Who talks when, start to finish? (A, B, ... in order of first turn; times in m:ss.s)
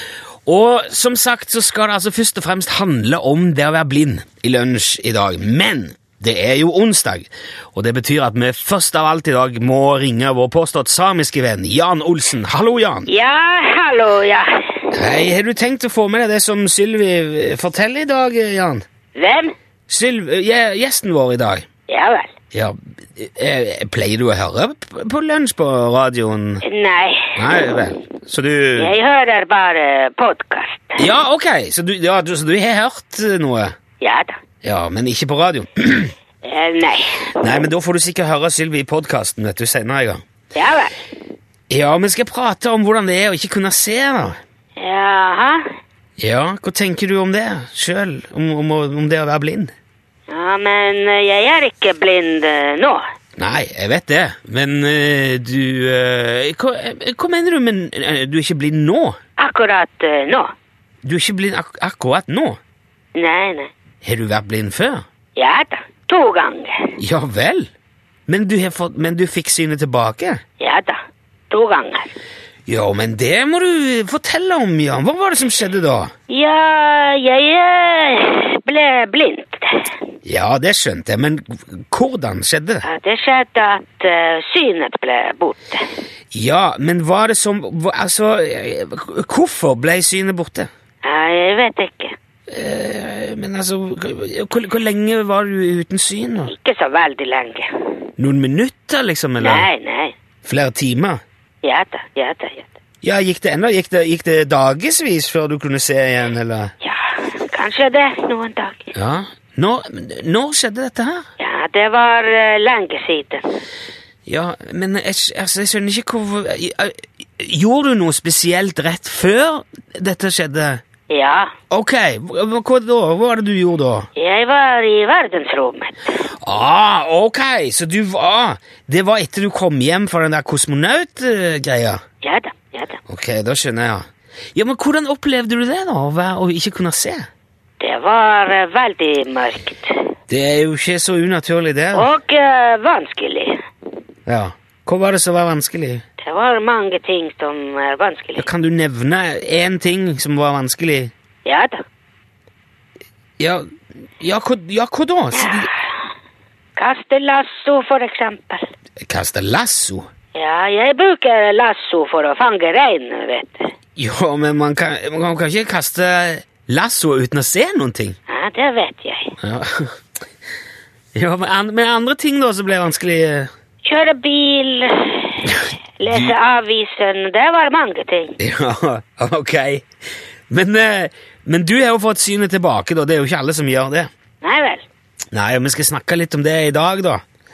0:00.5-0:13.1 A
0:13.1-0:14.9 B
0:14.9-0:18.8 A
0:19.2-0:19.5 B
0:19.9-0:21.7 A
0:21.9-0:22.3 B
0:22.5-0:26.6 A
0:26.6-0:27.4 B
0:27.4-0:28.9 A
0:28.8-0:31.0 B
0:31.0-0:33.8 A
0:34.0-0:34.4 B
0:34.6-0:36.1 A
0:36.4-0:37.3 B
0:37.4-0:40.2 A
0:40.6-0:40.9 B
0:41.7-0:44.4 A
0:44.8-0:45.6 B
0:46.2-0:49.7 A
0:50.3-0:53.0 B
0:53.4-0:59.2 A
0:59.4-1:00.5 B
1:01.0-1:02.6 A
1:03.2-1:03.7 B
1:04.0-1:05.0 A
1:05.4-1:07.0 B
1:07.0-1:07.7 A
1:08.3-1:10.4 A
1:10.6-1:11.0 B
1:11.5-1:12.1 B
1:12.7-1:16.1 A
1:16.3-1:19.9 B
1:20.2-1:22.9 A
1:22.8-1:25.9 B
1:26.3-1:30.7 A
1:31.0-1:32.2 B
1:32.5-1:36.5 A
1:36.4-1:37.7 B
1:38.2-1:39.7 A
1:39.4-1:40.2 B
1:40.4-1:41.2 A
1:41.6-1:42.8 B
1:43.0-1:46.7 A
1:46.8-1:48.9 B
1:48.9-1:51.2 A
1:51.4-1:53.5 B
1:54.3-2:00.8 A
2:01.1-2:01.5 B
2:01.7-2:04.1 A
2:04.2-2:06.1 B
2:06.4-2:12.0 A
2:12.2-2:13.0 B
2:13.1-2:17.3 A
2:17.8-2:20.0 B
2:20.3-2:22.1 A
2:21.9-2:23.6 B
2:24.3-2:26.0 A
2:26.2-2:28.5 B
2:28.4-2:31.1 A
2:31.4-2:31.8 B
2:33.4-2:33.7 A
2:34.2-2:35.7 A
2:35.3-2:35.9 B
2:36.8-2:38.7 B
2:39.0-2:40.1 A
2:40.4-2:43.7 B
2:44.0-2:48.2 A
2:48.3-2:49.4 B
2:49.4-2:50.0 A
2:51.2-2:53.5 A
2:53.8-2:58.4 B
2:58.4-2:59.9 A
3:00.5-3:04.1 A
3:04.4-3:04.9 B
3:05.3-3:07.2 A